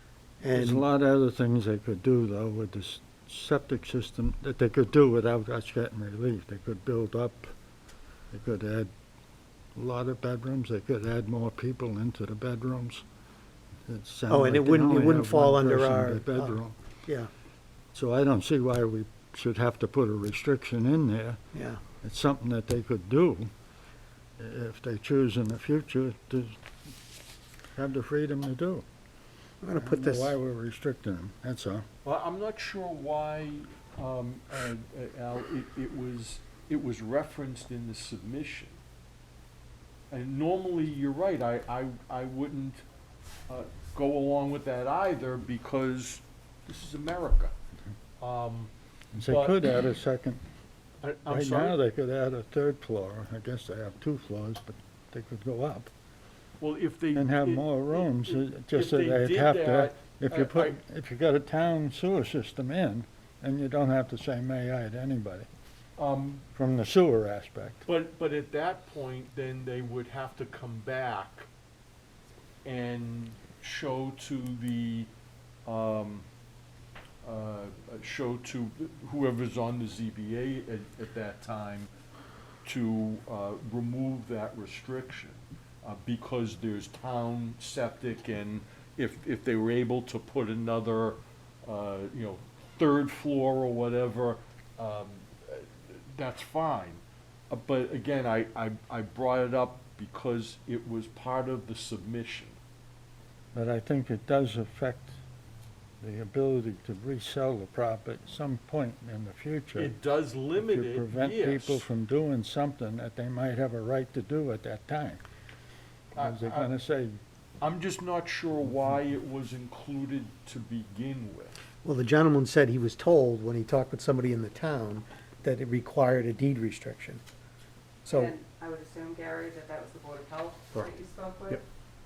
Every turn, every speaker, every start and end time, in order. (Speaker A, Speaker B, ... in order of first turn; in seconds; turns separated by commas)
Speaker A: 0.4-0.8, Speaker B: 0.5-7.5, Speaker B: 8.3-8.9, Speaker B: 9.7-13.0, Speaker B: 13.9-16.7, Speaker A: 14.3-17.3, Speaker B: 17.9-21.4, Speaker A: 21.5-21.8, Speaker B: 22.0-23.5, Speaker B: 24.4-26.5, Speaker B: 27.7-28.8, Speaker A: 29.6-30.4, Speaker B: 29.7-31.9, Speaker C: 32.0-38.8, Speaker C: 40.1-42.8, Speaker C: 43.5-47.5, Speaker C: 48.2-48.7, Speaker B: 49.1-50.4, Speaker C: 49.3-49.5, Speaker C: 51.0-51.8, Speaker B: 51.2-55.9, Speaker C: 56.6-60.8, Speaker B: 57.1-65.5, Speaker C: 66.0-66.4, Speaker B: 66.5-67.8, Speaker C: 67.8-71.5, Speaker C: 72.6-75.1, Speaker C: 75.7-76.2, Speaker C: 77.2-81.9, Speaker C: 82.6-102.6, Speaker B: 103.5-105.2, Speaker B: 106.0-109.9, Speaker C: 109.7-111.8, Speaker B: 110.5-115.2, Speaker C: 116.1-116.7, Speaker B: 116.1-117.2, Speaker C: 117.6-121.6, Speaker A: 121.8-127.2, Speaker A: 128.1-128.3, Speaker D: 128.1-131.6